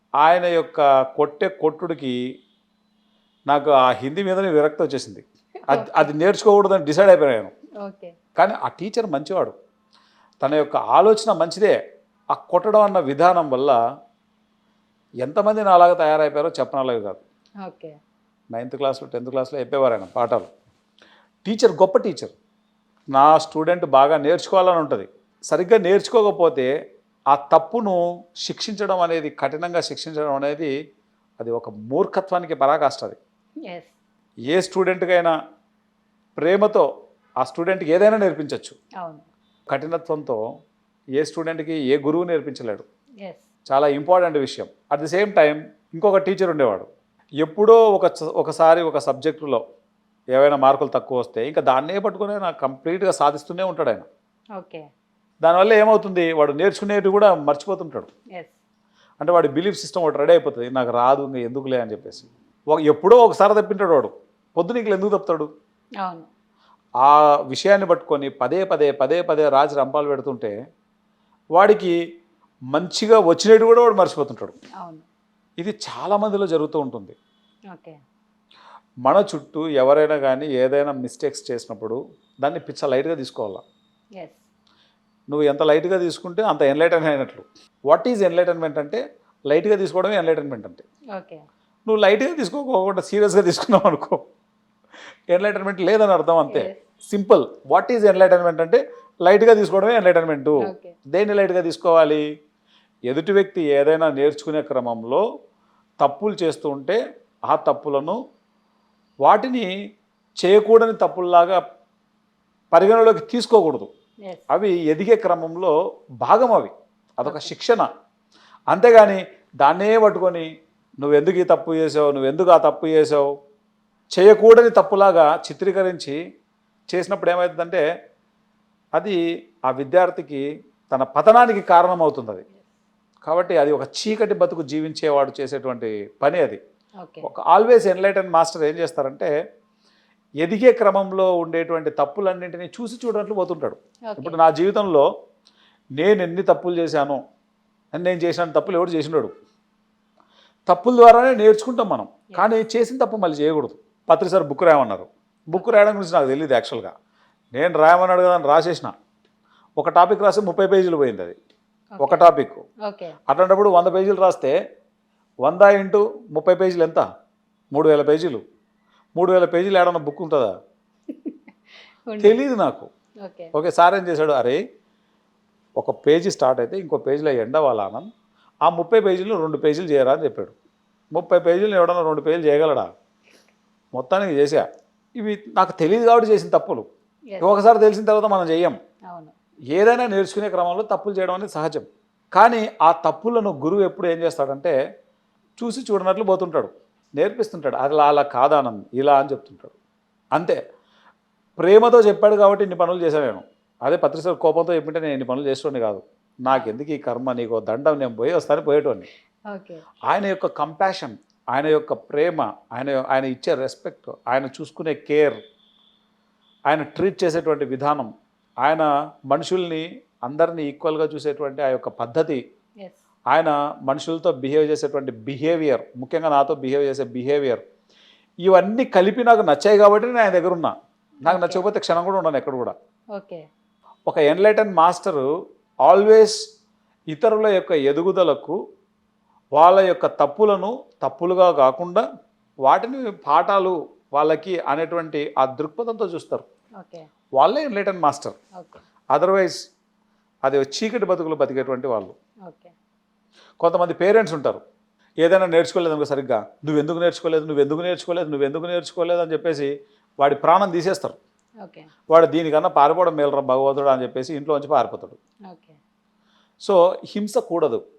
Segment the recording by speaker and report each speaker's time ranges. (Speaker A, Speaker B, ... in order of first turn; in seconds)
Speaker A: 0.2-2.2, 3.5-7.5, 8.4-9.5, 10.4-11.8, 12.3-13.8, 15.2-17.2, 18.5-20.5, 21.4-22.3, 23.1-26.7, 27.3-30.7, 31.4-33.2, 34.5-35.4, 36.4-36.9, 37.4-38.8, 39.7-40.4, 41.2-42.9, 43.7-46.9, 47.4-49.6, 50.3-54.1, 55.4-58.1, 59.2-65.5, 67.0-70.5, 71.5-72.0, 72.7-74.5, 75.6-77.2, 79.0-83.6, 85.3-90.8, 91.9-94.2, 95.3-102.2, 103.1-105.2, 106.0-108.2, 109.3-109.7, 110.4-111.6, 112.7-113.9, 114.5-117.9, 118.7-120.5, 121.0-123.3, 124.2-126.2, 126.9-127.8, 129.0-132.4, 133.2-136.6, 137.2-139.3, 140.4-145.1, 146.0-147.2, 147.9-149.3, 150.7-156.9, 157.5-158.9, 159.8-161.4, 162.0-162.6, 163.3-164.6, 165.4-167.1, 167.7-168.4, 169.2-170.5, 172.2-172.9, 173.5-174.6, 175.8-178.1, 178.7-180.6, 181.1-182.9, 183.9-186.9, 187.4-188.8, 189.7-194.8, 195.6-199.8, 200.3-200.6, 201.6-209.1, 210.1-215.4, 216.7-218.1, 218.6-222.4, 223.3-227.6, 228.4-230.7, 231.3-232.8, 234.1-235.3, 235.8-236.4, 237.1-238.6, 239.6-242.1, 242.7-246.4, 247.4-248.4, 249.1-249.6, 250.4-252.2, 253.6-254.6, 255.2-261.2, 262.1-265.2, 266.6-267.8
Speaker B: 5.6-6.1, 7.8-8.2, 17.6-18.0, 33.7-34.0, 39.0-39.3, 54.6-54.9, 66.0-66.3, 74.8-75.1, 77.7-78.0, 84.2-84.5, 91.2-91.4, 96.5-96.8, 100.6-101.0, 117.2-117.5, 132.5-132.8, 137.0-137.3, 144.1-144.4, 162.0-162.3, 162.9-163.2, 171.1-171.4, 172.1-172.4, 173.2-173.5, 187.3-187.6, 189.1-189.3, 209.5-209.8, 231.3-231.6, 233.2-233.5, 246.8-247.1, 248.6-248.8, 252.5-252.7, 261.6-261.9, 265.5-265.8